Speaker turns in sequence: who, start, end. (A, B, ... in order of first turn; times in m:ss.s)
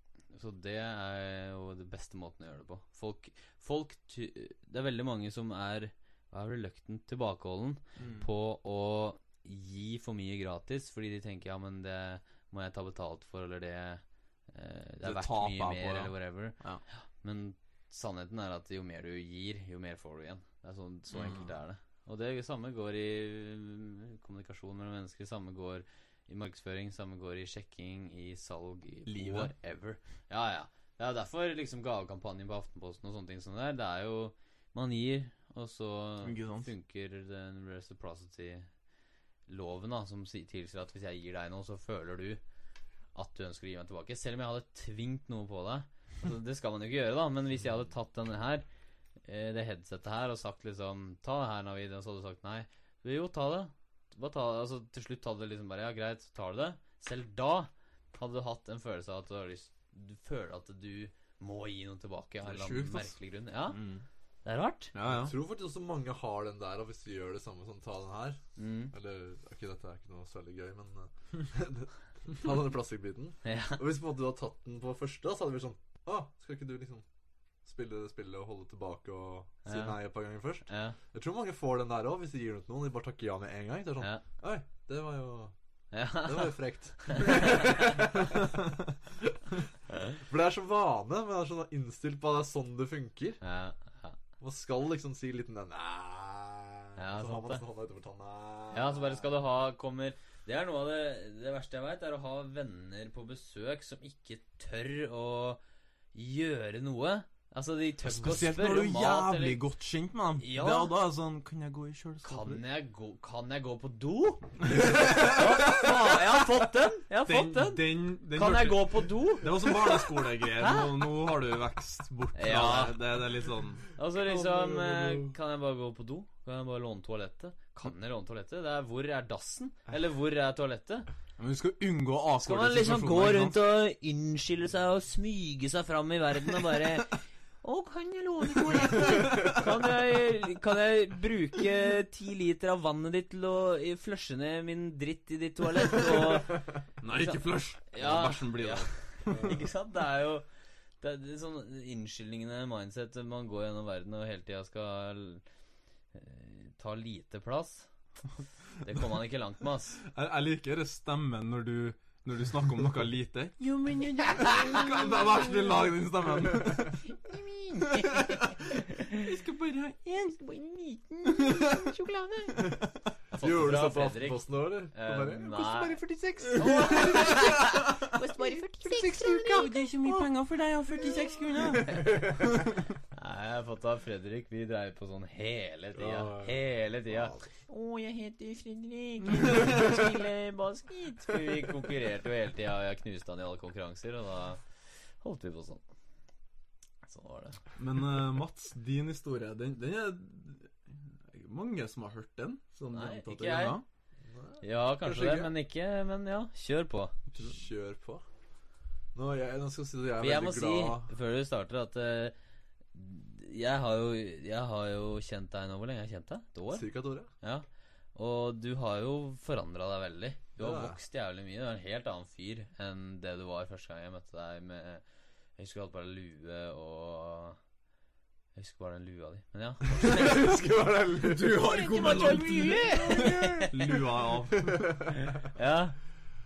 0:00.3-0:38.7 A
0:08.0-0:08.3 B
0:15.0-0:16.8 B
0:21.1-0:21.5 B
0:29.0-0:29.5 B
0:36.2-0:36.7 B
0:39.5-0:42.4 A
0:43.1-0:48.6 A
0:49.2-1:03.8 A
1:02.4-1:03.1 B
1:03.7-1:04.0 B
1:04.4-1:04.9 A
1:04.9-1:05.3 B
1:05.1-1:17.0 C
1:08.6-1:08.9 A
1:13.4-1:13.8 A
1:17.6-1:25.5 C
1:19.6-1:20.0 A
1:20.7-1:21.0 A
1:25.9-1:27.9 A
1:26.2-1:29.7 C
1:30.2-1:33.4 C
1:33.4-1:34.2 A
1:34.4-1:39.3 C
1:37.0-1:37.6 A
1:38.7-1:45.6 A
1:46.1-1:49.6 A
1:48.1-1:52.6 B
1:50.4-1:50.9 A
1:52.2-2:01.1 A
1:54.6-1:55.9 B
1:57.2-2:03.8 B
2:02.3-2:03.2 A
2:03.9-2:11.1 A
2:04.2-2:05.3 C
2:11.4-2:13.6 B
2:12.4-2:30.4 A
2:18.6-2:19.6 B
2:27.0-2:29.4 B
2:29.3-2:29.6 C
2:31.0-2:35.4 A
2:36.1-2:37.9 A
2:38.8-2:40.0 A
2:40.0-2:47.0 B
2:43.9-2:45.0 A
2:47.1-2:49.3 A
2:47.8-2:50.3 B
2:50.1-2:52.8 A
2:51.4-2:51.8 B
2:53.3-3:00.2 A
2:53.4-2:57.6 C
2:56.8-2:58.1 B
2:58.9-3:02.7 B
3:01.7-3:02.4 A
3:01.9-3:02.4 C
3:03.1-3:14.6 A
3:05.9-3:07.5 C
3:09.4-3:09.8 B
3:15.2-3:15.8 A
3:17.0-3:17.6 A
3:17.7-3:23.8 B
3:22.9-3:23.8 A
3:24.2-3:25.5 C
3:24.6-3:27.1 A
3:27.3-3:28.2 C
3:29.1-3:31.1 C
3:30.2-3:32.3 A
3:32.9-3:36.9 A
3:36.7-3:37.3 C
3:37.4-3:45.0 A
3:40.6-3:41.0 C
3:45.6-3:47.6 A
3:48.5-3:50.5 A
3:49.9-3:51.6 C
3:51.2-3:54.8 B
3:51.5-3:53.9 A
3:52.9-3:53.7 C
3:54.5-3:55.4 C
3:55.2-3:56.0 A